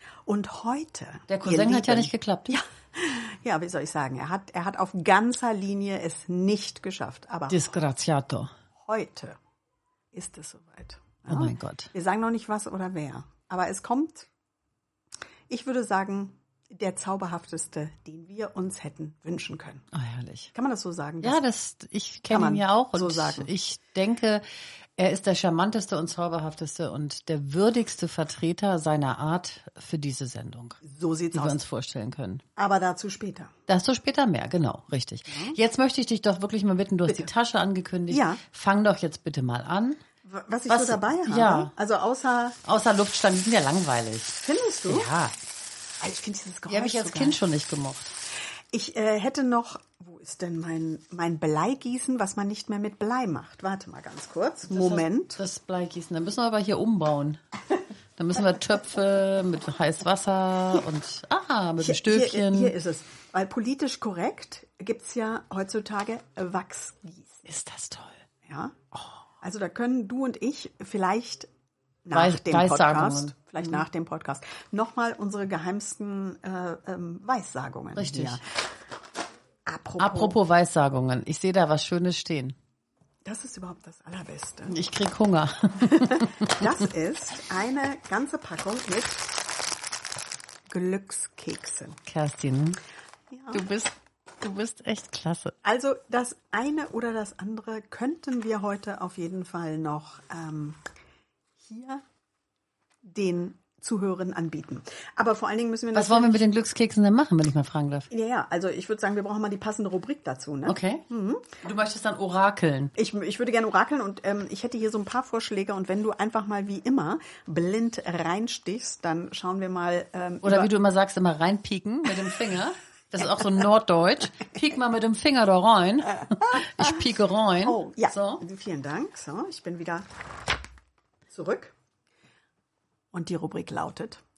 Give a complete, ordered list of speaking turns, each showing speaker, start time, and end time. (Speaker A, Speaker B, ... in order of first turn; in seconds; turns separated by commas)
Speaker A: 0.2-7.7, Speaker B: 1.3-2.6, Speaker B: 7.5-8.5, Speaker A: 8.8-9.4, Speaker A: 10.1-14.3, Speaker B: 11.3-11.9, Speaker A: 15.5-19.8, Speaker B: 19.9-20.5, Speaker A: 20.5-21.4, Speaker B: 21.2-24.4, Speaker A: 22.3-23.5, Speaker B: 25.0-30.8, Speaker A: 30.8-31.6, Speaker B: 31.3-32.4, Speaker A: 32.6-33.5, Speaker B: 33.7-40.0, Speaker A: 35.3-35.6, Speaker A: 38.1-38.4, Speaker A: 40.2-42.6, Speaker B: 40.7-41.7, Speaker B: 42.6-45.4, Speaker A: 44.4-45.1, Speaker A: 46.0-47.4, Speaker B: 46.7-48.1, Speaker A: 48.7-55.4, Speaker B: 54.7-57.4, Speaker B: 58.2-62.7, Speaker A: 61.8-67.5, Speaker B: 67.5-68.2, Speaker A: 68.4-68.8, Speaker B: 68.9-69.2, Speaker A: 69.4-71.5, Speaker A: 72.0-78.4, Speaker B: 72.1-73.7, Speaker B: 77.9-78.4, Speaker A: 79.7-80.4, Speaker B: 80.0-82.5, Speaker A: 83.2-84.8, Speaker B: 84.7-86.6, Speaker A: 85.9-89.3, Speaker A: 90.7-92.0, Speaker B: 92.0-92.8, Speaker A: 93.3-93.6, Speaker B: 93.5-95.5, Speaker A: 95.6-100.8, Speaker A: 101.6-102.0, Speaker A: 103.0-106.4, Speaker B: 105.9-108.1, Speaker A: 108.1-111.6, Speaker B: 110.7-111.0, Speaker B: 111.6-112.9, Speaker A: 113.0-120.7, Speaker B: 120.4-128.4, Speaker A: 126.4-127.0, Speaker A: 127.6-130.1, Speaker A: 131.3-131.7, Speaker A: 133.1-134.2